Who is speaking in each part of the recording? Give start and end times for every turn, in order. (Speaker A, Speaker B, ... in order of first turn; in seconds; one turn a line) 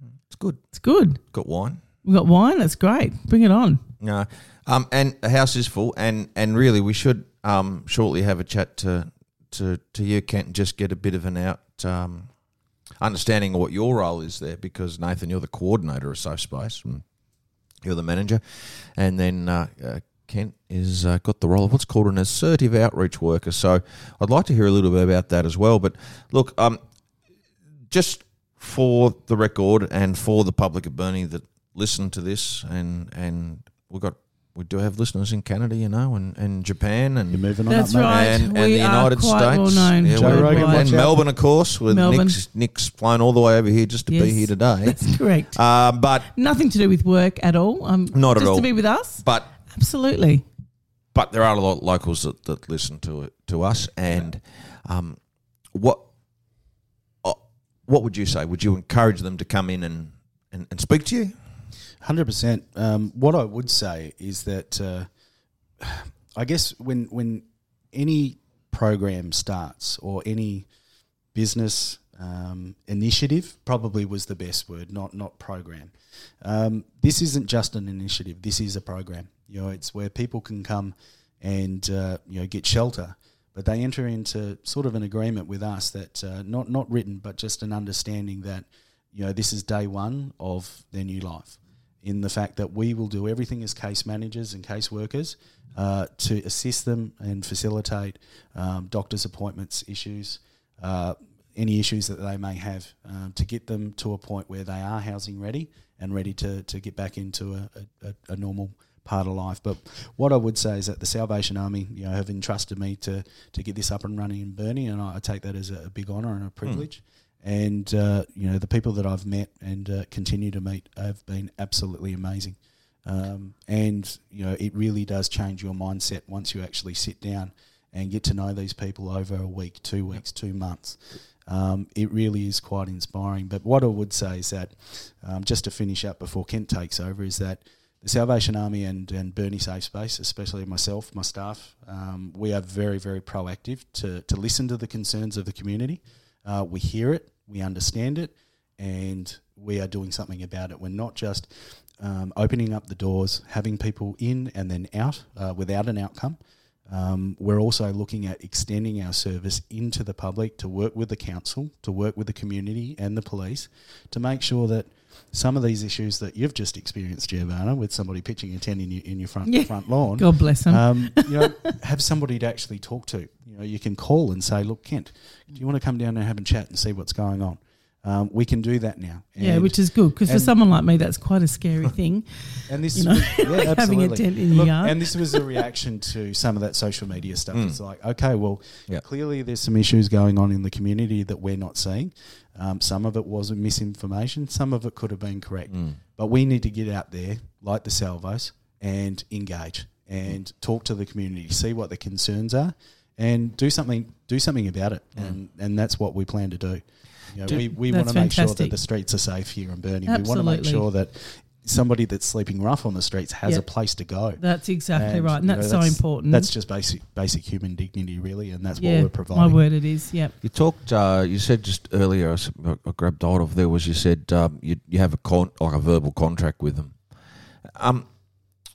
Speaker A: 0.3-0.6
Speaker B: 0.7-1.2
Speaker A: 1.3-1.8
Speaker B: 2.0-3.8
Speaker A: 4.0-12.3
Speaker A: 13.0-17.0
Speaker A: 17.8-26.8
Speaker A: 27.9-37.4
Speaker C: 37.3-38.2
Speaker B: 37.7-41.0
Speaker A: 38.0-46.3
Speaker C: 40.1-41.2
Speaker B: 41.9-42.4
Speaker B: 44.1-45.6
Speaker B: 46.3-50.4
Speaker A: 48.1-48.7
Speaker A: 49.2-49.5
Speaker A: 51.1-55.2
Speaker A: 55.7-56.1
Speaker A: 57.2-61.3
Speaker C: 62.0-65.1
Speaker C: 65.8-70.7
Speaker C: 71.3-180.6
Speaker B: 169.5-171.8
Speaker B: 179.4-185.6
Speaker C: 182.7-214.4
Speaker A: 195.7-196.0
Speaker B: 207.5-208.8
Speaker B: 210.1-210.9
Speaker B: 214.4-216.5
Speaker C: 214.9-219.6
Speaker B: 218.8-220.3
Speaker A: 220.4-227.0
Speaker A: 227.7-228.1